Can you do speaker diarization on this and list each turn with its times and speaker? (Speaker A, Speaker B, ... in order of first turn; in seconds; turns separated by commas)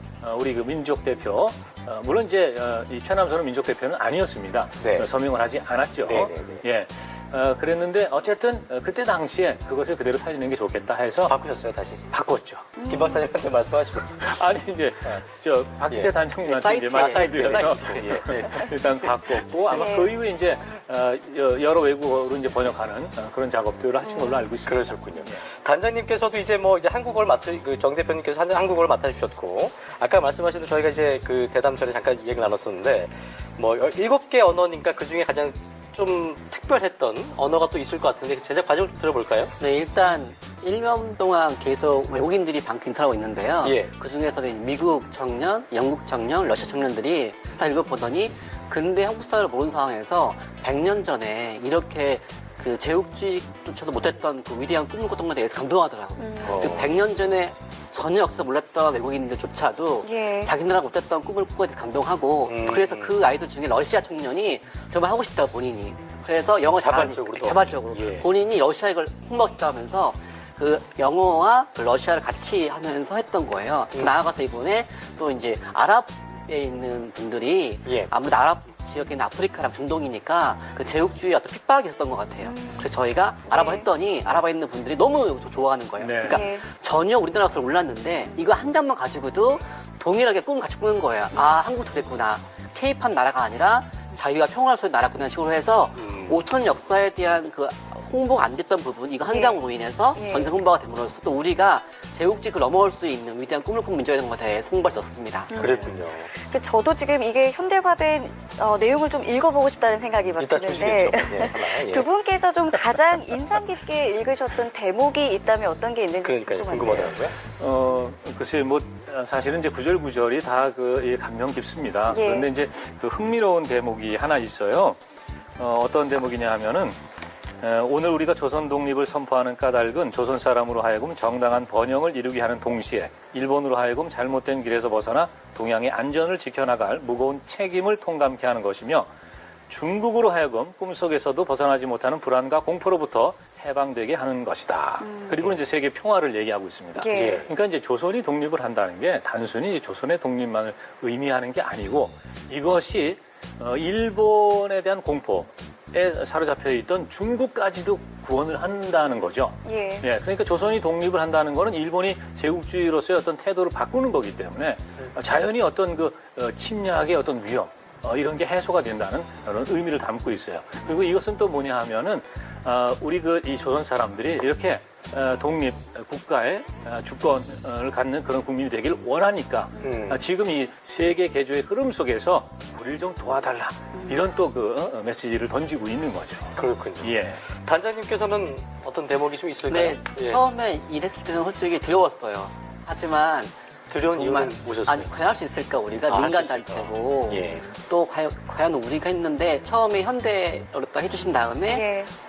Speaker A: 0.2-11.4, Speaker B: 4.8-5.1, Speaker B: 6.0-6.6, Speaker B: 11.2-12.0, Speaker A: 12.1-12.8, Speaker C: 12.8-13.2, Speaker B: 12.9-14.3, Speaker A: 14.2-25.4, Speaker D: 16.5-18.3, Speaker B: 16.9-19.3, Speaker C: 19.7-20.1, Speaker C: 24.1-24.4, Speaker B: 24.6-39.5, Speaker D: 39.6-105.9, Speaker B: 43.6-43.9, Speaker C: 56.2-56.7, Speaker B: 56.4-57.0, Speaker C: 60.0-60.5, Speaker B: 62.5-63.2, Speaker B: 66.8-68.3, Speaker B: 77.9-78.1, Speaker C: 82.4-82.9, Speaker C: 83.5-83.9, Speaker A: 86.0-86.4, Speaker C: 86.2-86.7, Speaker B: 96.0-96.4, Speaker C: 99.3-99.6, Speaker C: 100.2-100.5, Speaker C: 105.5-117.1, Speaker B: 105.6-106.3, Speaker B: 110.4-112.1, Speaker B: 116.2-117.3, Speaker A: 117.4-125.0, Speaker C: 122.1-122.5, Speaker A: 125.6-127.0, Speaker A: 127.6-139.1, Speaker A: 139.7-187.4, Speaker C: 145.0-145.5, Speaker C: 147.0-147.5, Speaker B: 147.1-147.5, Speaker C: 159.7-160.1, Speaker B: 179.8-180.2, Speaker B: 186.6-190.4, Speaker D: 189.7-193.5, Speaker B: 193.9-195.1, Speaker D: 194.1-201.9, Speaker B: 196.1-197.7, Speaker C: 201.7-202.1